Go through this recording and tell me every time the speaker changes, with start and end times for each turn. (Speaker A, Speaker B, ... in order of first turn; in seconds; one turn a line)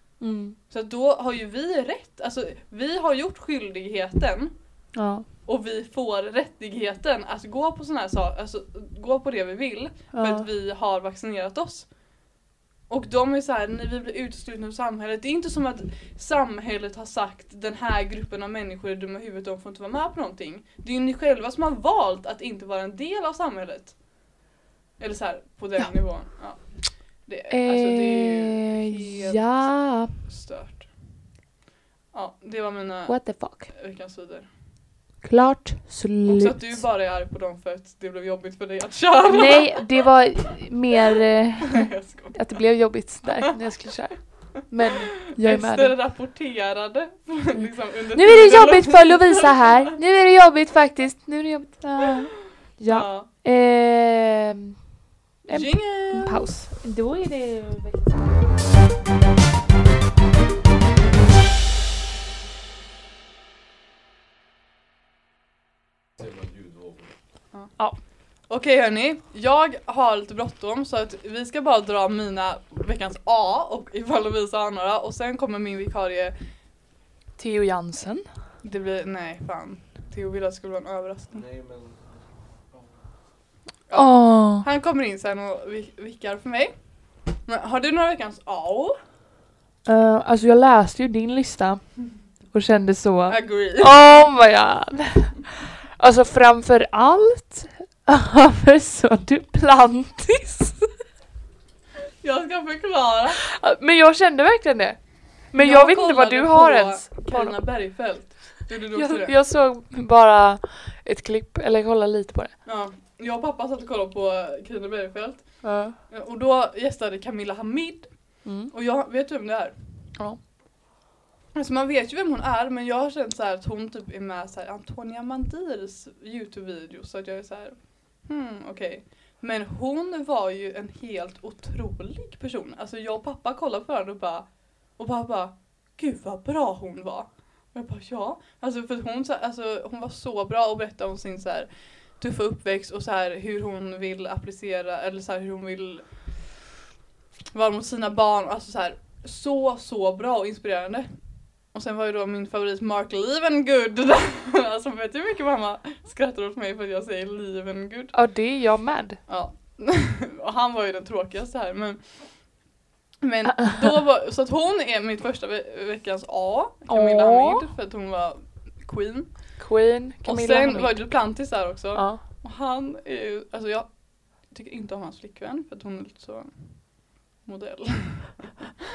Speaker A: 0.2-0.6
Speaker B: 0.7-4.9
Speaker A: 4.9-5.3
Speaker B: 5.4-12.0
Speaker A: 10.1-10.5
Speaker B: 12.9-24.4
Speaker B: 25.0-31.1
Speaker A: 25.8-26.6
Speaker A: 27.5-30.1
Speaker B: 32.1-34.5
Speaker A: 33.1-33.7
Speaker A: 35.2-36.9
Speaker B: 36.3-40.0
Speaker A: 39.3-46.0
Speaker B: 41.9-42.5
Speaker B: 45.4-49.9
Speaker A: 47.5-54.9
Speaker B: 52.8-53.3
Speaker A: 55.5-58.5
Speaker B: 55.5-56.5
Speaker C: 66.2-67.1
Speaker B: 67.5-76.4
Speaker A: 77.4-78.3
Speaker B: 78.6-81.5
Speaker C: 81.3-83.2
Speaker B: 83.9-89.0
Speaker A: 83.9-84.7
Speaker A: 89.8-100.9
Speaker B: 93.3-93.9
Speaker B: 102.2-103.4
Speaker A: 103.4-107.6
Speaker B: 105.5-109.3
Speaker A: 109.0-112.6
Speaker B: 112.7-119.8
Speaker A: 115.6-116.0
Speaker A: 118.4-118.7
Speaker A: 120.2-120.4
Speaker B: 121.5-146.4
Speaker B: 147.5-158.1
Speaker A: 158.1-159.2
Speaker B: 159.3-162.6
Speaker B: 163.2-178.6
Speaker A: 166.9-167.7
Speaker A: 169.6-172.2